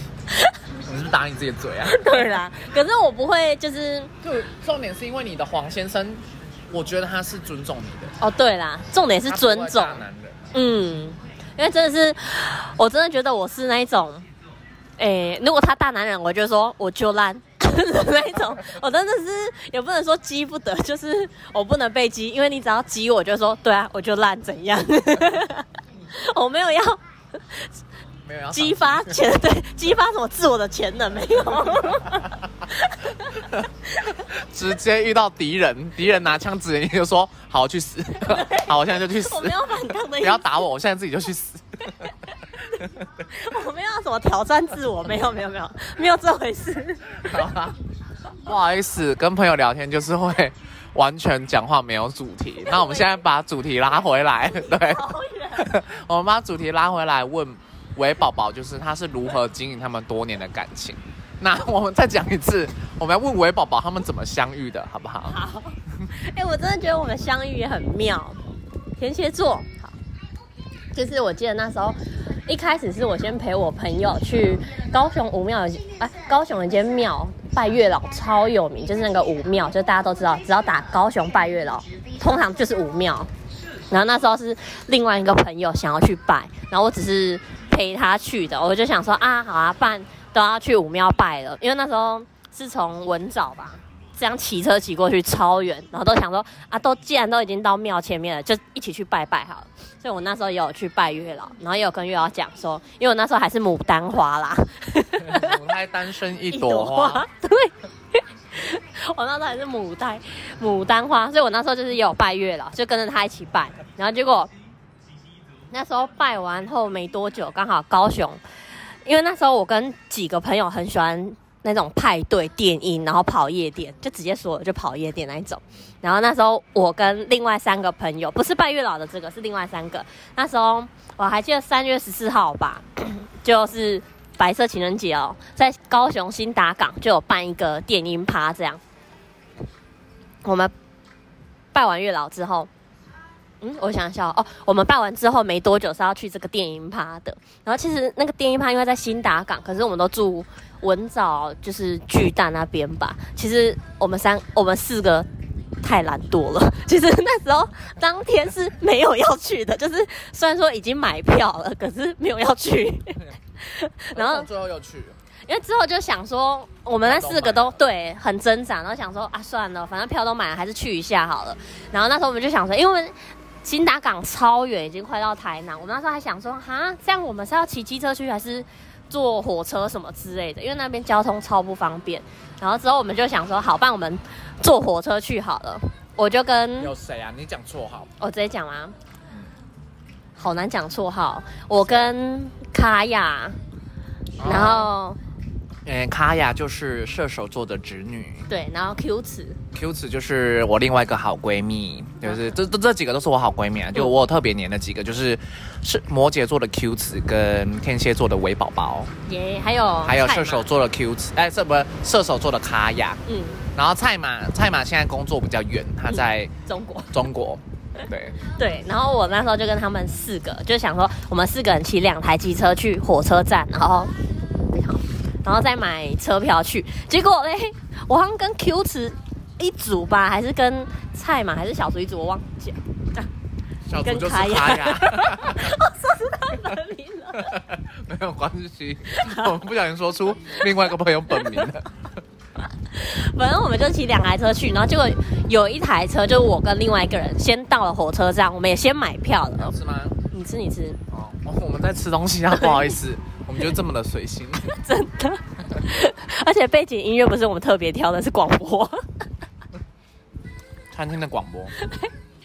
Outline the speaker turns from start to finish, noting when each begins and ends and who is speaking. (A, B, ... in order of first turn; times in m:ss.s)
0:00.3-0:00.6 A
0:00.8-0:02.2 B
0:01.8-0:04.1 A
0:04.2-0:08.2 B
0:08.2-0:10.0 A
0:09.3-0:10.6 B
0:10.5-0:14.3 A
0:15.0-0:27.7 A
0:28.2-0:29.2 B
0:28.5-0:33.5 A
0:33.5-0:42.1 B
0:38.2-0:40.6 A
0:43.2-0:47.2 A
0:47.2-0:47.8 B
0:48.4-1:05.4 B
0:52.6-0:53.2 A
0:54.5-0:55.7 A
1:05.3-1:08.4 A
1:09.0-1:09.9 A
1:10.9-1:23.3 A
1:23.9-1:45.6 A
1:45.2-1:47.2 B
1:46.5-1:54.5 A
1:55.7-1:58.4 A
1:59.0-2:18.8 A
2:20.4-2:20.7 A
2:21.7-2:22.7 A
2:23.6-2:35.3 A
2:35.8-2:44.5 A
2:44.1-2:45.2 B
2:45.5-3:06.9 A
2:47.0-2:47.8 B
3:06.8-3:08.1 B
3:08.2-3:09.0 A
3:10.4-3:13.6 A
3:11.8-3:12.1 B
3:14.4-3:14.9 B
3:14.4-3:15.2 A
3:15.9-3:18.5 B
3:18.5-3:19.6 A
3:19.7-3:29.1 B
3:29.3-3:30.7 A
3:30.0-3:33.2 B
3:33.3-3:33.6 A
3:33.7-3:36.5 B
3:36.1-3:37.1 A
3:37.1-3:38.4 B
3:38.4-3:53.3 A
3:53.9-3:55.7 B
3:54.0-3:57.6 A
3:57.4-4:01.9 B
3:59.2-3:59.5 A
4:02.9-4:09.8 A
4:09.6-4:10.2 B
4:10.3-4:11.0 A
4:11.1-4:14.7 B
4:12.6-4:13.0 A
4:14.7-4:19.0 A
4:20.9-4:21.7 B
4:21.8-4:22.1 A